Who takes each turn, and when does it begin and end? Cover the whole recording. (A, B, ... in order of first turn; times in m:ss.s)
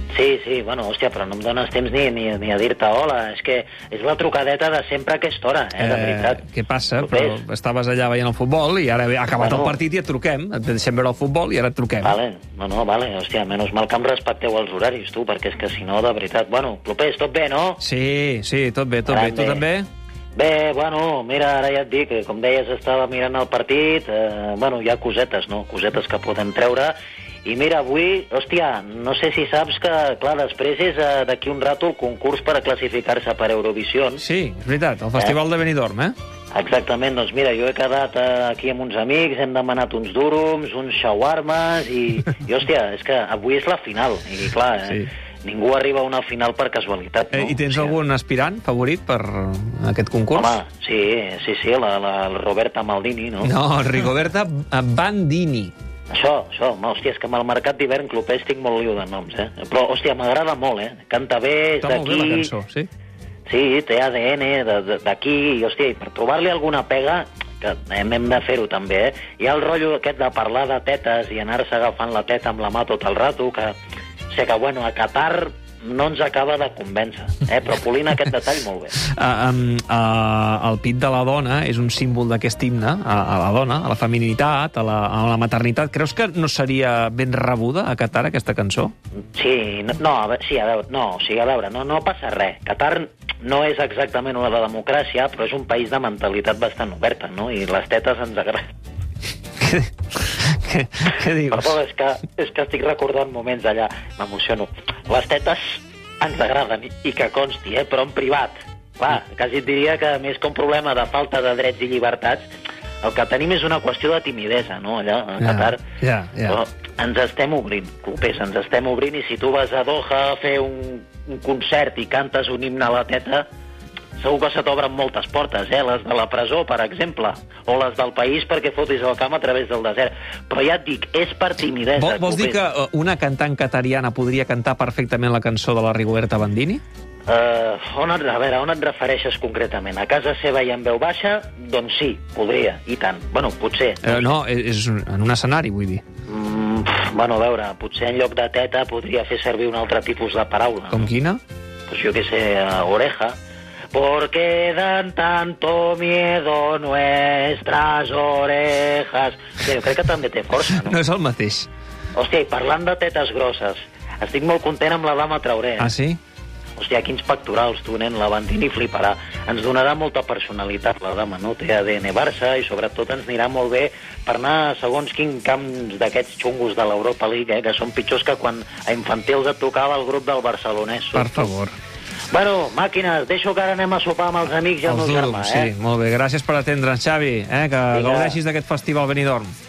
0:00.1-0:06.4 A
0:05.8-0:12.2 B
0:07.0-0:07.4 A
0:09.4-0:09.8 A
0:12.0-0:17.8 A
0:17.8-0:19.8 B
0:19.1-0:19.6 A
0:20.4-0:34.2 A
0:34.2-0:36.1 B
0:36.5-0:48.0 A
0:47.3-0:50.5 B
0:50.3-0:53.5 A
0:53.4-0:55.7 B
0:56.1-1:02.5 A
1:01.8-1:02.9 B
1:03.5-1:13.7 A
1:14.3-1:19.0 A
1:19.0-1:28.9 B
1:29.3-1:38.7 A
1:39.6-1:41.7 B
1:41.5-1:52.5 A
1:53.0-1:55.8 A
1:55.4-1:56.6 B
1:56.4-2:03.4 A
2:04.2-2:12.6 A
2:12.0-2:16.8 B
2:17.3-2:24.3 A
2:24.0-2:26.0 B
2:26.3-2:31.1 A
2:30.9-2:31.4 B
2:31.9-2:33.4 A
2:33.9-2:41.0 A
2:40.7-2:41.7 B
2:42.1-2:45.9 A
2:45.8-2:46.2 B
2:46.8-3:01.5 A
3:01.1-3:01.7 B
3:02.3-3:05.7 A
3:04.8-3:09.5 B
3:07.9-3:08.4 A